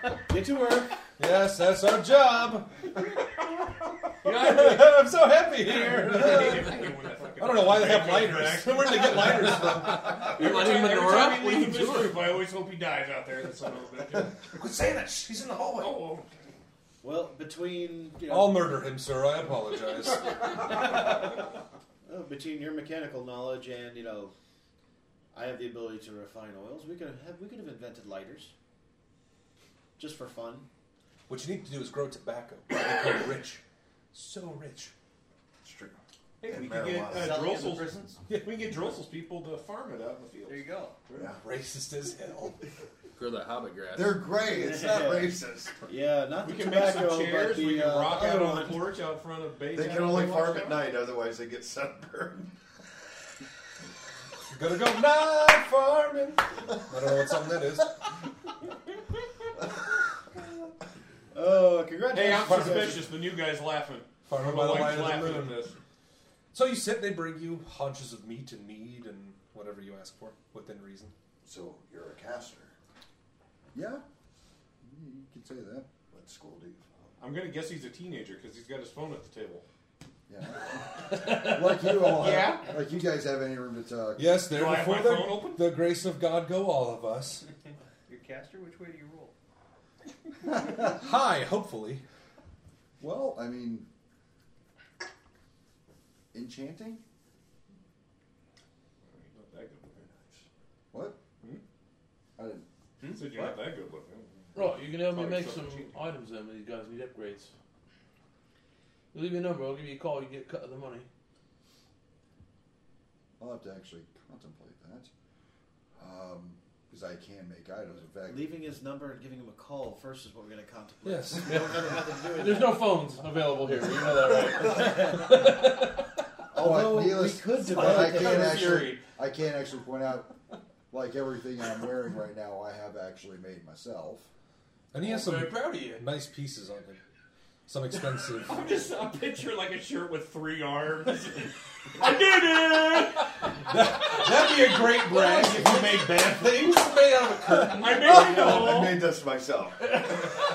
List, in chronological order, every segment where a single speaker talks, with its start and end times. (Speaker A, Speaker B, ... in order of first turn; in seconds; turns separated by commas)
Speaker A: 0.2-0.9, Speaker B: 1.2-3.2, Speaker C: 4.2-14.6, Speaker B: 4.2-6.8, Speaker B: 7.4-10.2, Speaker D: 9.6-12.3, Speaker B: 14.5-16.1, Speaker C: 15.8-16.3, Speaker A: 17.0-18.8, Speaker B: 18.3-21.0, Speaker A: 22.1-24.3, Speaker A: 25.3-28.5, Speaker A: 30.0-30.7, Speaker B: 31.3-33.6, Speaker B: 34.1-34.9, Speaker E: 35.6-37.5, Speaker C: 36.4-41.4, Speaker F: 37.0-38.2, Speaker F: 40.4-41.0, Speaker B: 41.2-42.6, Speaker D: 43.2-44.3, Speaker E: 43.9-45.9, Speaker A: 44.6-48.8, Speaker C: 46.4-50.8, Speaker E: 49.7-52.5, Speaker B: 54.5-58.0, Speaker A: 61.3-63.1, Speaker C: 62.1-65.8, Speaker B: 62.7-63.0, Speaker B: 64.3-65.7, Speaker B: 66.5-71.1, Speaker E: 71.4-72.8, Speaker G: 73.7-74.0, Speaker G: 74.8-75.9, Speaker E: 76.1-77.2, Speaker C: 77.2-79.7, Speaker G: 80.3-84.4, Speaker C: 81.8-82.8, Speaker B: 84.2-87.5, Speaker C: 84.4-85.7, Speaker F: 88.1-89.3, Speaker G: 90.5-91.0, Speaker B: 90.8-92.0, Speaker G: 93.0-93.9, Speaker G: 96.3-97.0, Speaker C: 99.1-100.3, Speaker G: 100.9-101.2, Speaker G: 102.4-102.7, Speaker C: 103.0-106.0, Speaker G: 103.2-103.6, Speaker D: 104.5-107.5, Speaker D: 109.1-111.1, Speaker G: 113.4-115.1, Speaker G: 116.0-118.5, Speaker A: 118.3-122.9, Speaker B: 121.0-121.7, Speaker D: 122.3-125.6, Speaker G: 126.5-130.3, Speaker A: 126.5-128.9, Speaker D: 127.7-129.0, Speaker G: 130.9-134.3, Speaker B: 134.9-137.0, Speaker D: 135.0-136.1, Speaker B: 137.7-138.6, Speaker D: 138.5-139.9, Speaker C: 140.0-141.2, Speaker C: 142.0-143.2, Speaker B: 143.6-148.2, Speaker C: 147.7-149.1, Speaker E: 148.0-150.0